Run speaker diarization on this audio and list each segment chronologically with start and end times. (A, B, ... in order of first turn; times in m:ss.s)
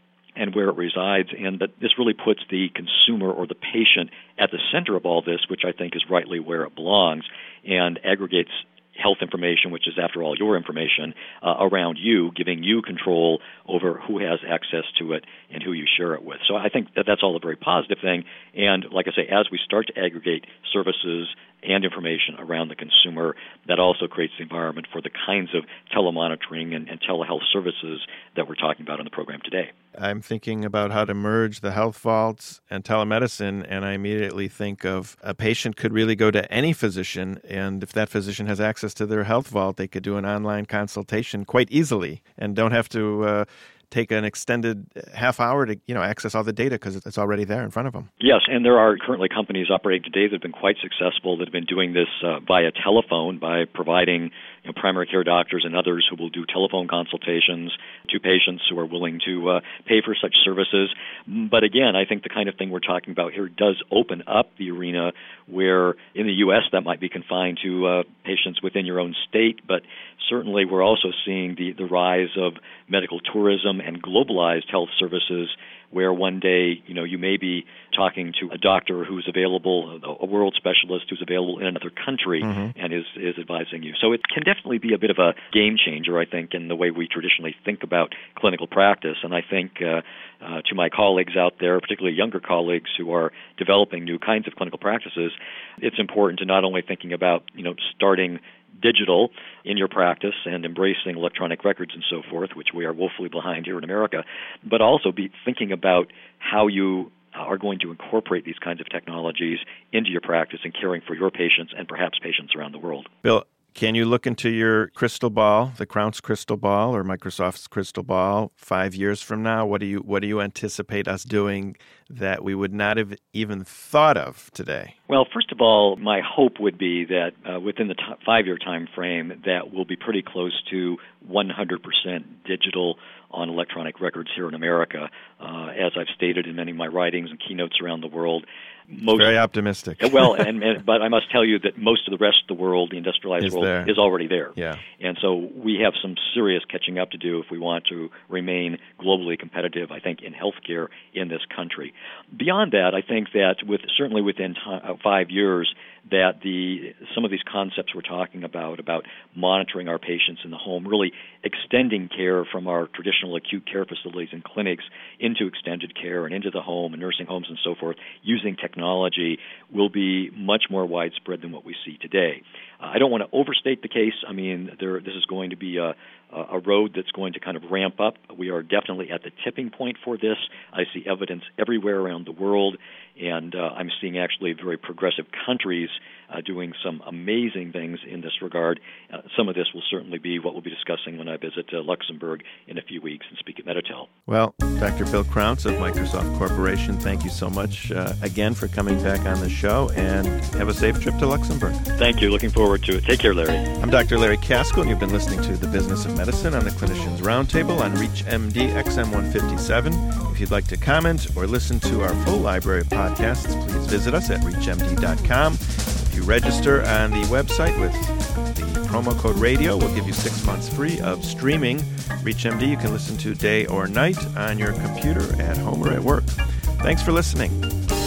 0:00.4-0:29.7 A
0:30.0-0:48.1 B
0:48.2-1:53.1 A
1:53.2-2:04.9 B
2:05.1-2:19.4 A
2:19.1-2:20.4 B
2:20.0-3:14.1 A
2:23.4-2:23.9 B
2:24.6-2:24.8 B
3:14.3-3:21.8 B
3:22.0-3:23.7 A
3:23.8-3:47.6 B